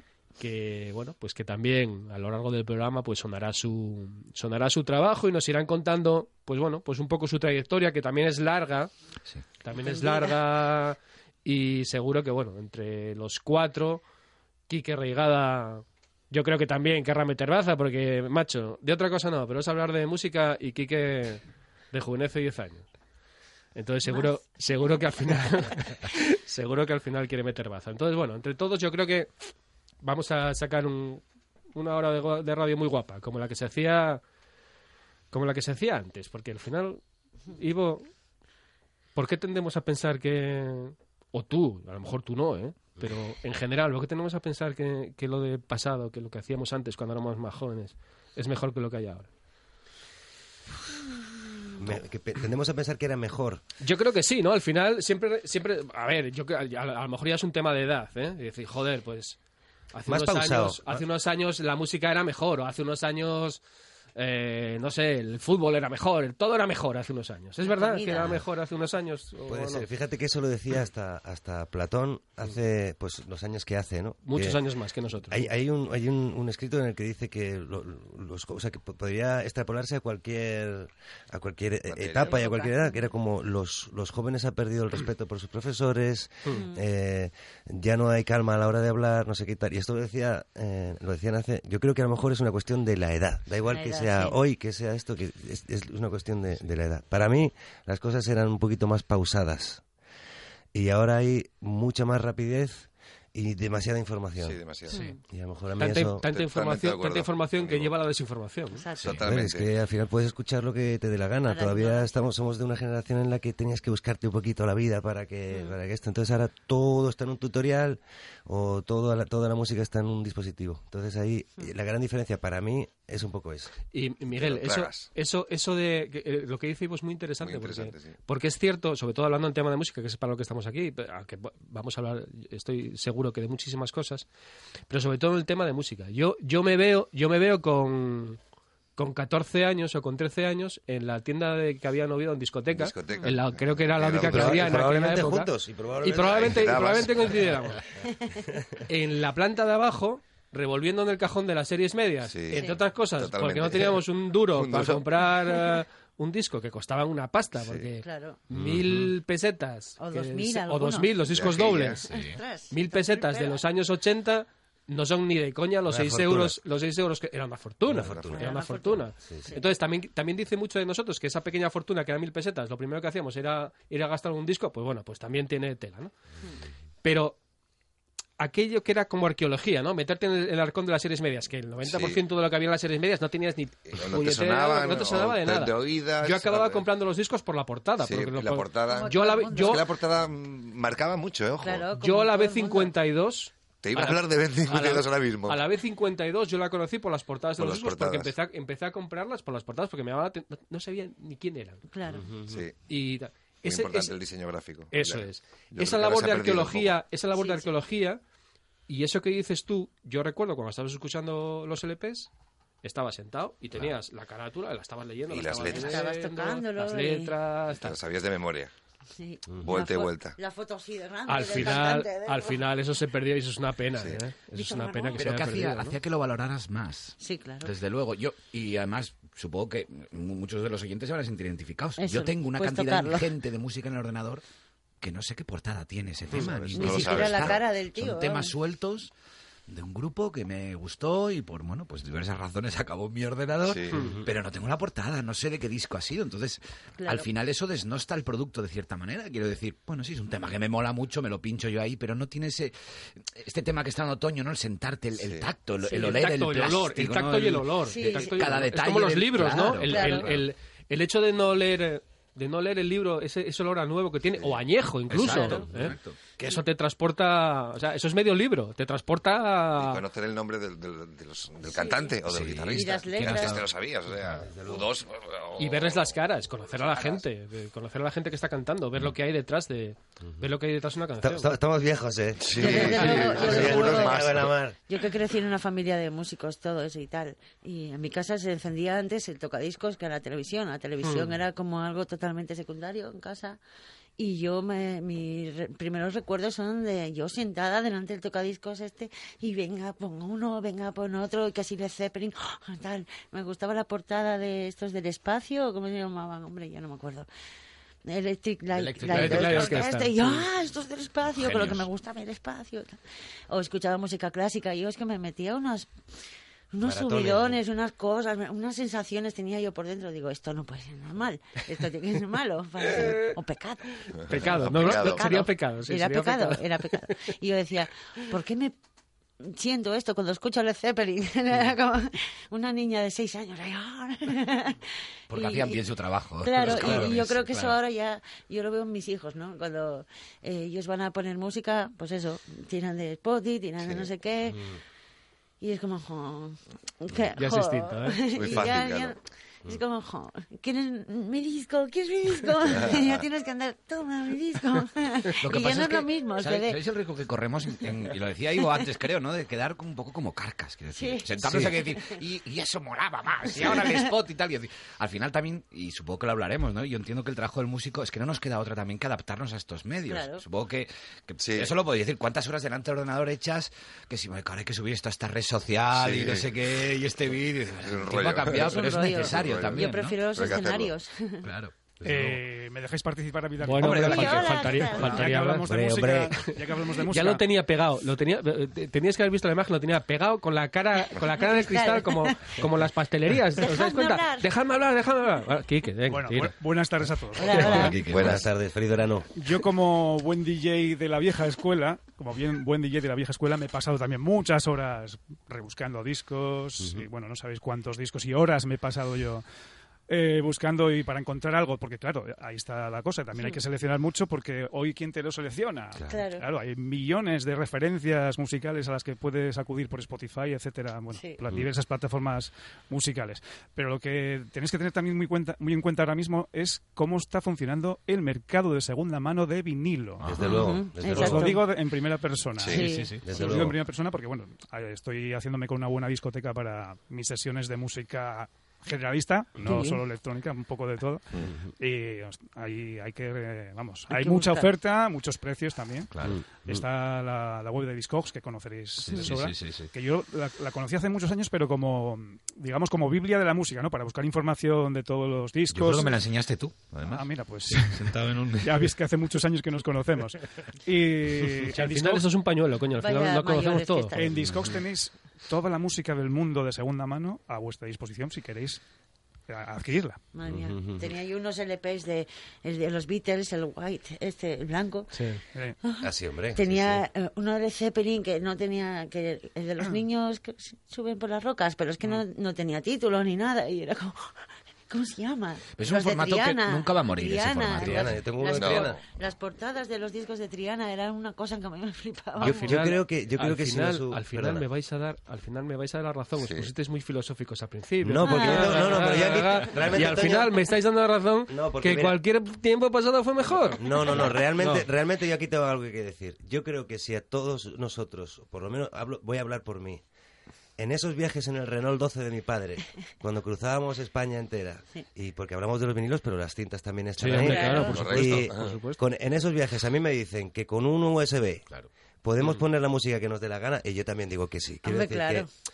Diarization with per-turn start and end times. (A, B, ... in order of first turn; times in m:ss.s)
0:00.4-0:08.9 A
0:09.6-0:14.0 A
0:09.7-0:10.4 B
0:14.7-0:22.9 A
0:23.7-0:29.5 A
0:30.0-0:31.2 A
0:31.7-0:34.2 A
0:35.3-0:37.0 A
0:37.5-0:38.1 A
0:39.1-0:49.3 A
0:51.8-0:53.6 C
0:53.8-0:59.4 A
0:59.9-1:03.6 A
1:00.0-1:01.0 C
1:04.2-1:09.9 A
1:07.6-1:08.4 B
1:09.5-1:14.6 C
1:14.2-1:15.5 A
1:15.3-1:39.8 C
1:21.9-1:22.4 D
1:22.2-1:23.1 B
1:26.5-1:26.8 B
1:33.7-1:34.3 B
1:40.7-1:44.6 C
1:44.4-1:45.0 D
1:44.9-1:45.2 B
1:45.2-1:46.2 C
1:45.8-1:48.8 A
1:46.2-1:48.0 D
1:48.7-1:49.2 B
1:49.0-1:49.7 D
1:49.2-2:03.7 C
1:51.5-1:52.1 B
1:55.5-1:55.7 B
2:03.9-2:14.2 A
2:04.3-2:05.1 D
2:07.4-2:08.1 D
2:14.9-2:18.4 A
2:19.0-2:25.5 A
2:22.7-2:24.9 D
2:24.2-2:26.7 C
2:26.0-2:27.8 A
2:26.2-2:27.5 D
2:28.9-2:42.0 A
2:32.3-2:35.0 D
2:32.5-2:32.8 B
2:38.0-2:38.4 B
2:38.5-2:39.1 C
2:40.0-2:41.1 B
2:41.3-2:42.0 D
2:42.1-2:42.4 E
2:42.1-2:43.6 B
2:42.7-2:56.1 A
2:45.8-2:46.6 C
2:47.9-2:48.4 C
2:48.0-2:48.4 D
2:48.3-2:49.7 B
2:49.2-2:49.5 C
2:57.0-2:57.4 A
2:58.4-3:09.8 A
3:01.8-3:02.2 D
3:03.9-3:06.8 D
3:08.0-3:11.9 D
3:08.8-3:09.9 B
3:11.6-3:12.9 B
3:12.0-3:21.8 A
3:13.8-3:15.6 D
3:17.6-3:18.3 D
3:21.9-3:22.4 B
3:22.2-3:22.6 C
3:22.5-3:22.8 D
3:22.9-3:24.2 A
3:23.6-3:27.0 D
3:24.9-3:28.2 A
3:27.4-3:27.7 B
3:28.9-3:32.3 A
3:32.8-3:38.0 A
3:35.3-3:36.0 D
3:35.6-3:37.3 B
3:37.7-3:38.7 D
3:39.2-3:42.6 B
3:39.6-3:40.4 D
3:41.3-3:46.0 A
3:44.5-3:45.2 B
3:45.2-3:54.4 E
3:47.2-3:47.7 B
3:52.0-3:53.3 B
3:55.0-3:59.1 E
3:56.4-3:57.6 D
3:56.7-3:58.5 B
3:59.7-4:20.3 E
4:03.6-4:04.0 D
4:03.9-4:04.2 A
4:07.0-4:07.3 B
4:15.2-4:15.5 D
4:15.8-4:16.2 B
4:15.9-4:30.0 A
4:17.9-4:18.6 B
4:19.8-4:20.4 B
4:25.1-4:26.2 E
4:25.2-4:25.6 B
4:29.8-4:36.1 D
4:31.6-4:32.2 B
4:32.2-4:33.6 E
4:32.7-4:33.7 B
4:34.4-4:34.9 C
4:35.6-4:41.5 A
4:36.9-4:37.2 D
4:41.2-4:44.8 C
4:42.4-4:44.6 D
4:42.6-4:53.6 B
4:42.6-4:43.9 A
4:51.0-4:51.4 A
4:54.2-5:07.3 B
5:08.0-5:13.0 B
5:08.7-5:10.1 E
5:09.1-5:10.4 A
5:11.3-5:11.9 E
5:13.5-5:16.0 B
5:16.7-5:28.7 B
5:16.8-5:17.6 C
5:22.8-5:23.4 A
5:24.2-5:27.1 A
5:24.2-5:25.3 D
5:29.4-5:35.8 B
5:35.3-5:37.8 E
5:36.4-5:44.7 B
5:44.5-5:44.8 C
5:45.6-5:56.8 B
5:47.4-5:48.2 A
5:48.4-5:49.1 D
5:52.7-5:53.2 D
5:55.4-6:20.2 E
6:01.0-6:02.2 B
6:01.4-6:01.7 C
6:03.5-6:04.1 B
6:10.1-6:10.4 B
6:11.4-6:11.7 D
6:15.9-6:16.5 D
6:17.7-6:20.9 D
6:18.5-6:21.5 B
6:21.4-6:22.3 E
6:22.0-6:27.4 F
6:23.6-6:25.7 A
6:23.8-6:24.2 E
6:23.9-6:25.3 B
6:25.6-6:26.4 C
6:26.3-6:36.5 A
6:31.1-6:32.6 B
6:33.6-6:34.5 B
6:36.1-6:38.0 F
6:37.4-6:38.0 B
6:37.6-6:38.4 E
6:37.9-6:39.3 C
6:39.3-6:49.4 F
6:50.1-7:10.2 F
6:56.0-6:56.2 C
6:56.1-6:56.4 B
7:01.1-7:01.4 B
7:10.2-7:11.4 E
7:10.2-7:11.6 C
7:10.4-7:11.6 B
7:11.0-7:36.2 F
7:12.7-7:13.2 B
7:12.7-7:13.5 E
7:13.2-7:13.8 C
7:19.6-7:20.0 B
7:24.1-7:24.7 B
7:26.1-7:26.4 E
7:29.0-7:29.9 E
7:35.7-7:38.9 E
7:37.0-7:42.3 F
7:41.7-7:44.2 A
7:43.0-7:44.4 B
7:44.1-7:48.8 F
7:44.4-7:44.7 C
7:49.5-7:50.2 F
7:50.3-7:55.1 B
7:50.5-7:51.1 C
7:55.1-7:55.4 A
7:55.8-8:04.4 B
7:56.0-7:57.0 C
8:04.9-8:12.8 B
8:05.8-8:08.2 E
8:07.7-8:09.0 C
8:08.4-8:09.0 D
8:12.4-8:14.6 C
8:12.4-8:24.9 A
8:16.4-8:16.7 D
8:18.0-8:20.5 C
8:18.2-8:19.3 B
8:19.8-8:20.5 B
8:21.5-8:22.2 C
8:23.8-8:30.0 C
8:30.8-8:41.7 C
8:37.2-8:39.0 A
8:37.3-8:38.2 B
8:37.9-8:38.8 D
8:42.2-8:45.5 C
8:44.8-8:45.5 B